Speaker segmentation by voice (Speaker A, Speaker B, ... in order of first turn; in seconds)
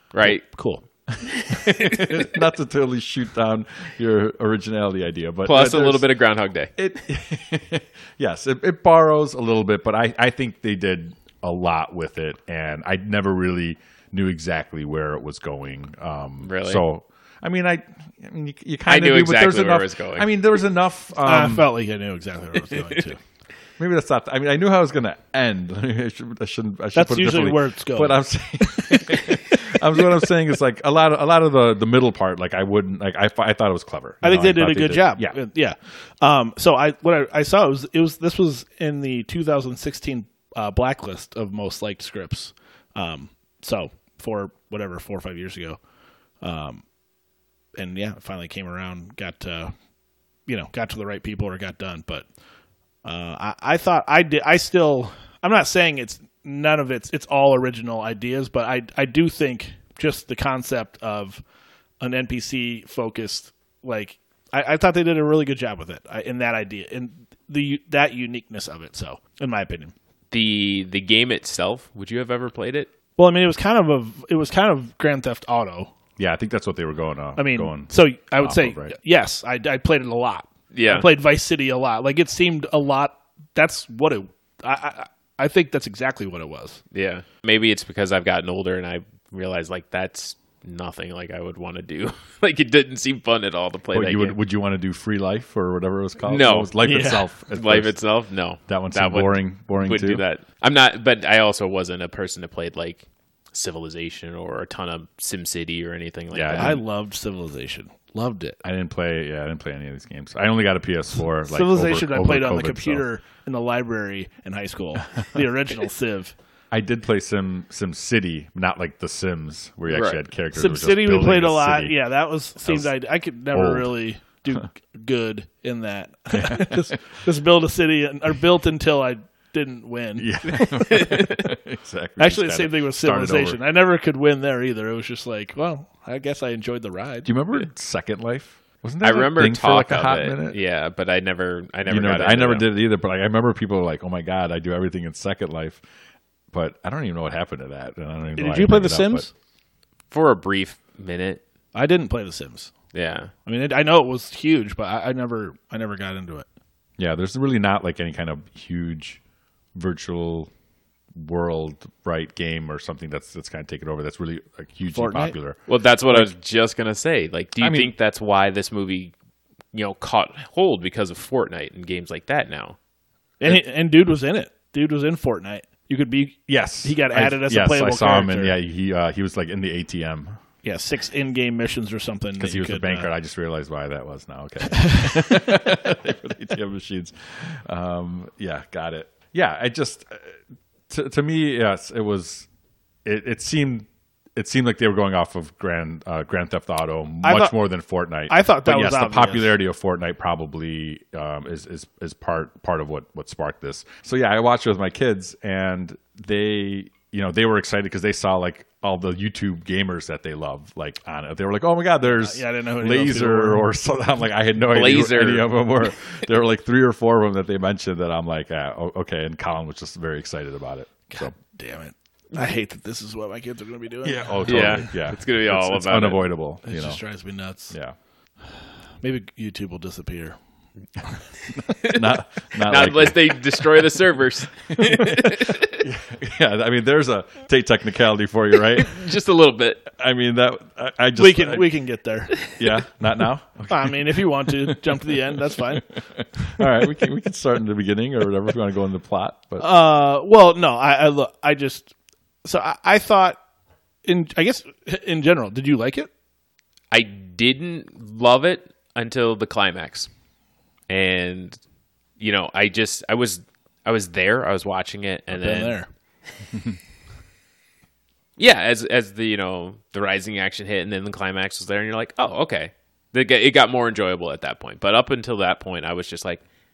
Speaker A: 0.1-0.5, 1.2-2.4, 5.4-6.7, 16.4-16.8, 18.9-20.3, 70.3-72.9, 80.7-81.1, 86.9-94.4, 96.2-96.7, 97.5-106.8, 119.9-120.2, 130.5-131.4, 139.0-142.7, 150.1-151.4, 152.9-153.3, 165.7-169.1, 169.7-172.8, 214.7-215.9, 224.4-226.3, 231.7-235.8, 238.5-239.9, 242.3-242.7, 256.9-260.1, 260.9-261.6, 262.2-265.8, 268.4-276.4
Speaker B: 0.2-0.8, 21.2-23.2, 26.9-29.2, 34.2-45.8, 46.4-46.8, 47.8-49.7, 50.5-52.2, 53.0-61.4, 62.0-69.9, 73.2-75.9, 77.4-86.8, 96.8-97.2, 106.5-108.6, 111.5-116.3, 120.5-131.1, 132.2-137.3, 148.4-149.3, 151.7-152.7, 153.4-156.5, 164.9-165.3, 173.4-178.5, 180.6-183.1, 197.2-197.5, 198.3-199.5, 212.0-213.7, 221.1-224.7, 226.6-227.7, 229.0-230.3, 241.2-242.4, 243.7-245.9, 249.6-251.9, 252.4-253.4, 254.0-256.1, 265.3-265.9
Speaker C: 1.1-6.1, 6.8-21.7, 23.8-35.4, 76.2-78.9, 93.9-98.0, 98.7-100.2, 106.3-106.8, 108.6-113.0, 116.7-121.9, 122.6-122.9, 123.5-123.9, 126.3-126.9, 130.2-133.6, 137.2-140.6, 141.9-145.8, 146.5-149.3, 157.0-159.2, 159.7-160.5, 161.1-166.3, 167.6-167.9, 176.5-180.4, 182.4-192.5, 193.0-221.3, 224.0-227.0, 227.7-227.9, 231.6-233.9, 234.7-239.0, 239.9-241.7, 242.6-249.6